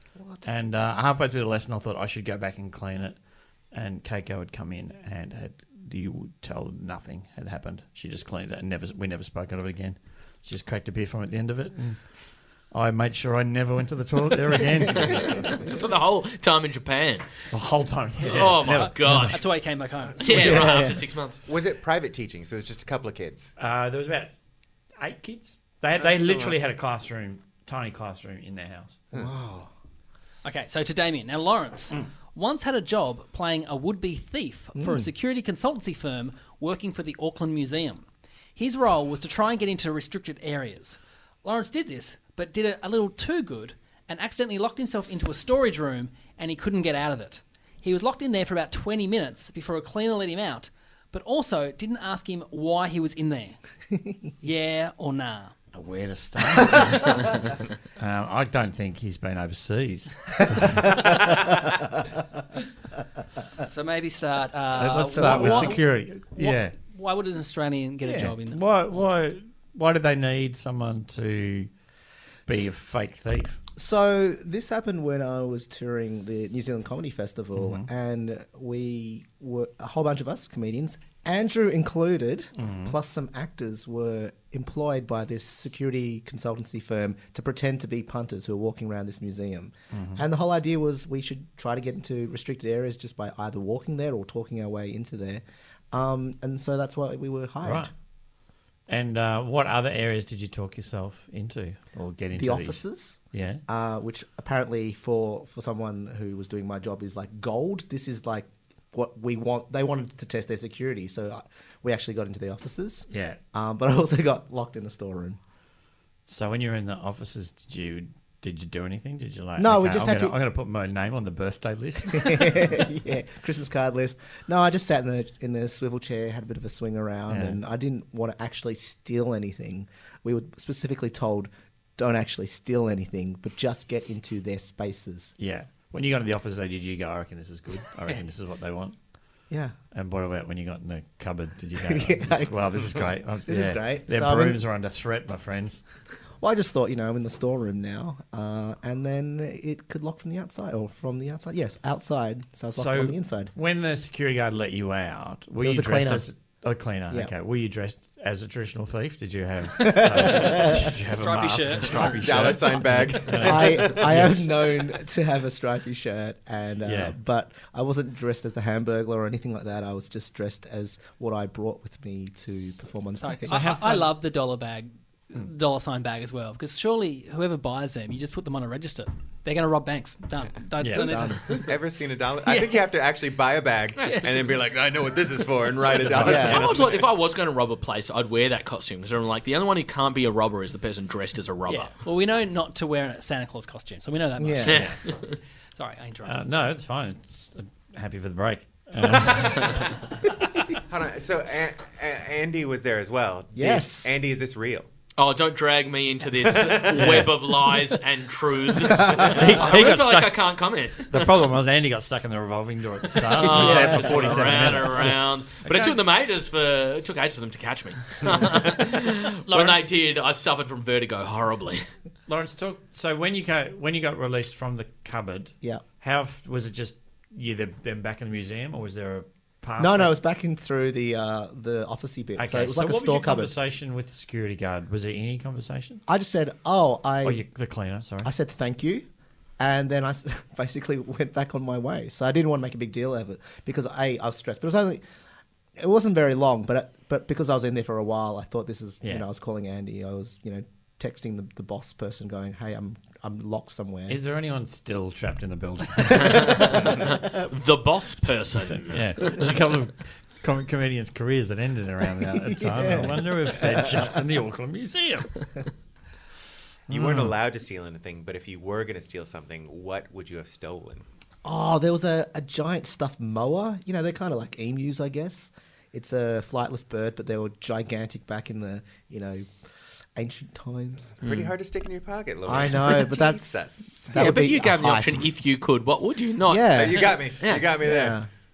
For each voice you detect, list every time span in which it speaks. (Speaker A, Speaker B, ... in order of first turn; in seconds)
Speaker A: 0.2-0.5, 20.2-21.0, 29.1-29.7, 34.8-35.1, 65.2-65.8, 73.8-97.9, 102.4-115.4, 119.6-120.4, 122.1-135.3, 139.5-139.8, 141.9-143.0, 143.5-144.6, 146.4-153.5, 155.6-156.3, 159.8-160.9, 162.0-162.6, 163.2-173.6, 180.9-181.4, 186.2-186.7, 194.4-194.8, 203.6-204.1, 209.0-209.4, 213.5-214.7, 229.8-233.5, 236.1-237.4, 238.2-239.1, 239.6-245.0, 245.8-254.2, 256.4-256.8, 262.5-264.2, 271.4-279.5, 280.1-281.1, 282.4-285.3, 286.4-287.2, 287.8-288.3
Speaker B: 0.4-3.2, 3.7-12.0, 12.7-15.6, 17.5-19.4, 23.6-24.3, 25.0-29.1, 55.7-57.4, 58.0-61.6, 64.8-66.7, 68.0-71.7, 72.5-73.6, 77.6-77.9, 82.6-82.9, 89.9-90.2, 97.6-97.9, 98.9-102.8, 103.3-103.6, 113.1-113.4, 116.3-122.7, 127.3-127.6, 135.4-139.0, 139.9-145.8, 152.7-164.4, 166.9-167.2, 173.5-174.2, 180.8-181.3, 185.9-186.6, 196.2-200.8, 206.9-207.3, 209.0-210.4, 211.1-216.0, 219.5-219.9, 222.3-230.1, 232.4-236.0, 237.2-238.3, 254.1-256.9, 258.5-265.3, 266.9-267.4
Speaker C: 15.0-17.3, 18.2-19.4, 20.2-21.4, 184.0-184.5, 186.2-191.9, 194.7-195.4, 205.2-211.4, 213.2-221.9, 256.2-259.4, 281.2-281.5, 284.2-287.7
Speaker D: 18.6-20.6, 30.4-38.0, 38.6-53.6, 54.4-55.5, 63.6-65.8, 66.4-68.6, 161.0-162.2, 173.2-181.4, 182.5-182.8, 184.0-184.3, 191.7-194.9, 195.8-196.4
Speaker E: 21.5-23.5, 26.0-26.6, 162.0-164.3, 181.4-187.1, 200.9-204.9, 206.4-207.3, 266.9-271.1, 281.2-284.3, 286.7-288.2